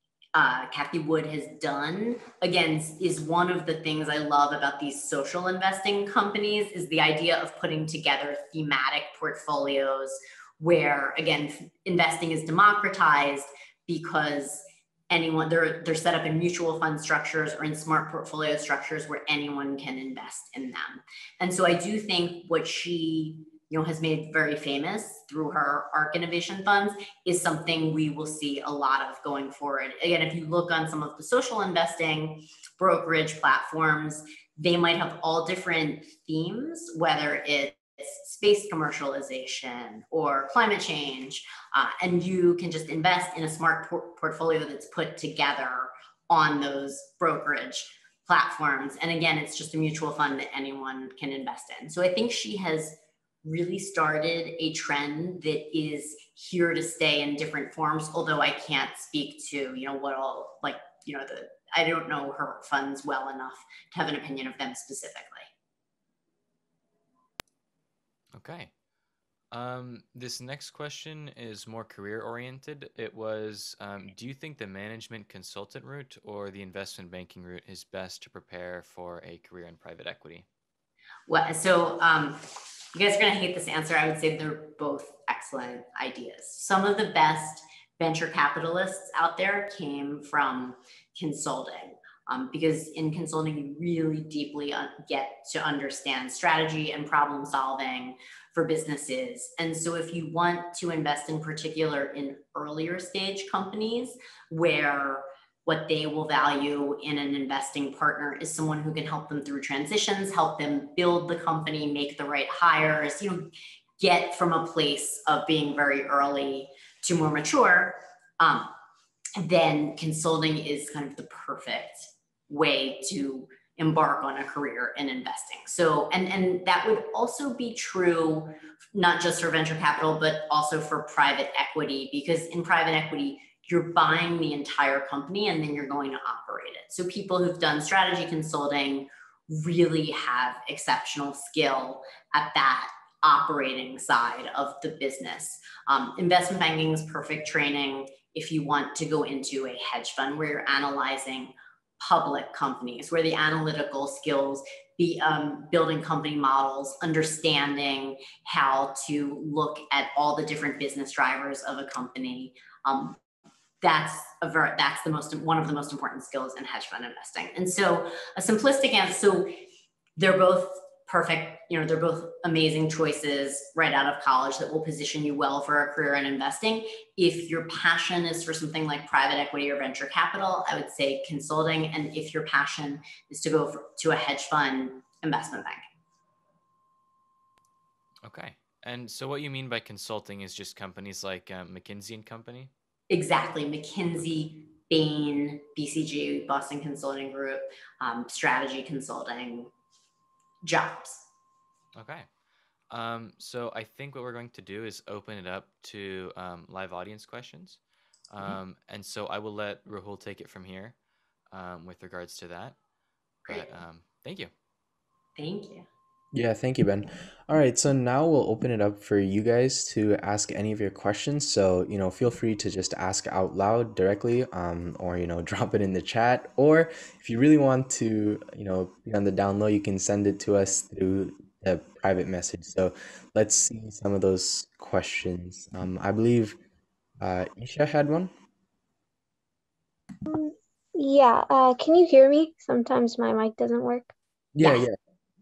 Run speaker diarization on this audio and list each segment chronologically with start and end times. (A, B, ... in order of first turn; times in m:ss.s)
0:00.3-1:05.5 A
1:08.3-1:08.7 B
1:09.5-1:20.4 B
1:21.3-1:58.7 A
1:59.4-2:43.2 A
2:43.8-2:49.5 A
2:50.2-3:05.8 A
3:08.2-3:12.7 B
3:13.1-3:19.7 A
3:20.6-3:21.3 A
3:21.9-3:22.3 B
3:22.9-3:30.9 B
3:31.5-3:32.8 B
3:33.5-3:34.5 B
3:35.4-3:35.9 A
3:36.3-3:56.6 C
3:57.2-3:58.3 C
4:00.3-4:04.1 D
4:04.5-4:05.0 C